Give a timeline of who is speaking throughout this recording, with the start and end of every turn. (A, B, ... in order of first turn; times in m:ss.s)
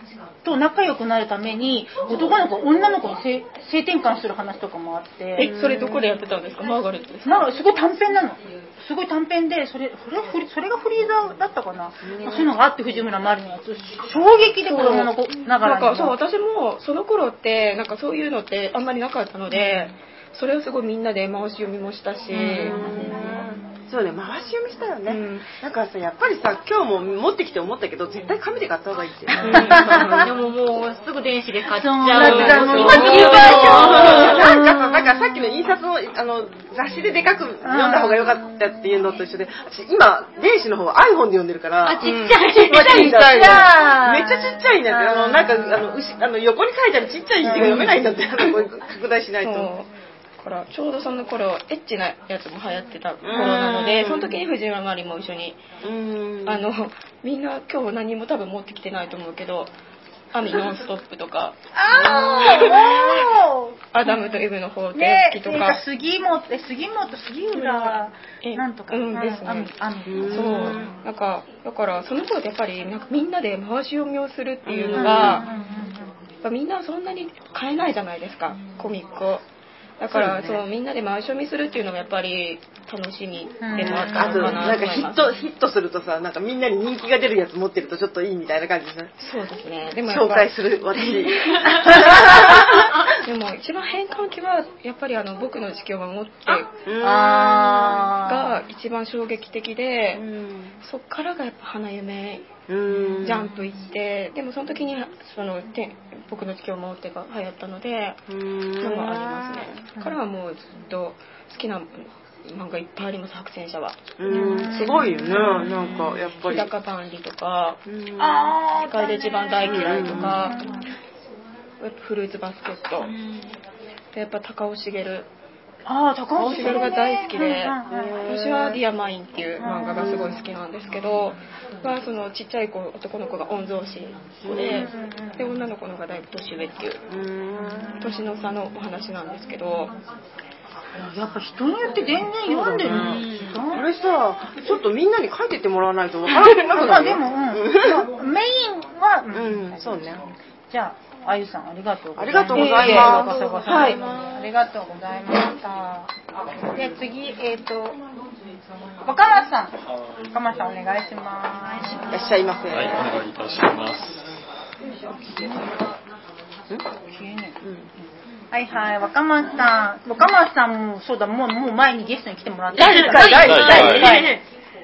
0:00.4-0:05.5 A
0:05.4-0:07.5 B
0:05.4-0:06.1 C
0:07.2-0:16.2 A
0:12.0-0:12.5 C
0:14.6-0:23.2 B
0:22.3-0:30.3 C
0:22.4-0:23.2 A
0:25.1-0:25.5 B
0:29.5-0:29.8 B
0:29.5-0:30.3 A
0:29.8-0:34.5 D
0:31.7-0:35.2 A
0:32.2-0:33.5 B
0:32.2-0:42.0 C
0:37.6-0:38.2 A
0:41.8-0:44.4 D
0:42.0-0:43.6 B
0:42.6-0:49.7 C
0:47.4-0:47.9 A
0:47.6-0:47.9 B
0:49.4-0:49.9 B
0:50.4-0:55.6 B
0:53.2-0:54.4 C
0:55.8-0:56.7 C
0:56.5-0:59.7 B
1:00.3-1:03.0 B
1:01.7-1:10.8 A
1:02.0-1:03.2 C
1:03.9-1:05.8 B
1:07.5-1:09.7 B
1:10.1-1:11.0 C
1:10.2-1:15.5 B
1:14.6-1:15.5 C
1:15.0-1:16.0 A
1:16.4-1:19.4 B
1:20.0-1:25.3 B
1:20.1-1:20.6 C
1:23.6-1:24.6 A
1:23.8-1:29.1 C
1:29.2-1:36.7 B
1:30.1-1:32.9 C
1:36.8-1:38.1 C
1:37.0-1:38.6 A
1:37.4-1:40.2 B
1:40.2-1:40.8 C
1:40.8-1:42.5 B
1:42.7-1:43.5 C
1:43.2-1:48.2 B
1:48.3-1:49.8 C
1:48.8-2:00.8 B
1:54.2-1:56.7 C
1:54.3-1:55.7 A
1:57.9-1:58.6 C
1:58.6-1:59.0 A
1:59.6-2:00.6 C
2:00.1-2:00.9 A
2:01.8-2:03.1 B
2:04.1-2:05.3 B
2:05.9-2:08.2 A
2:06.4-2:17.0 B
2:07.9-2:08.8 C
2:09.6-2:10.3 A
2:10.0-2:10.4 C
2:14.4-2:14.9 C
2:14.5-2:15.4 A
2:17.1-2:18.2 C
2:18.0-2:19.9 B
2:21.0-2:23.8 A
2:22.4-2:28.1 C
2:26.3-2:30.1 A
2:29.3-2:30.2 C
2:30.7-2:36.1 A
2:32.2-2:34.4 C
2:32.5-2:34.0 B
2:36.7-2:38.0 A
2:39.0-2:39.7 A
2:40.3-2:42.2 A
2:42.1-2:43.0 C
2:42.7-2:44.3 E
2:47.1-2:47.6 A
2:48.5-2:54.4 A
2:52.7-2:54.4 D
2:52.8-2:54.3 C
2:53.2-2:54.3 E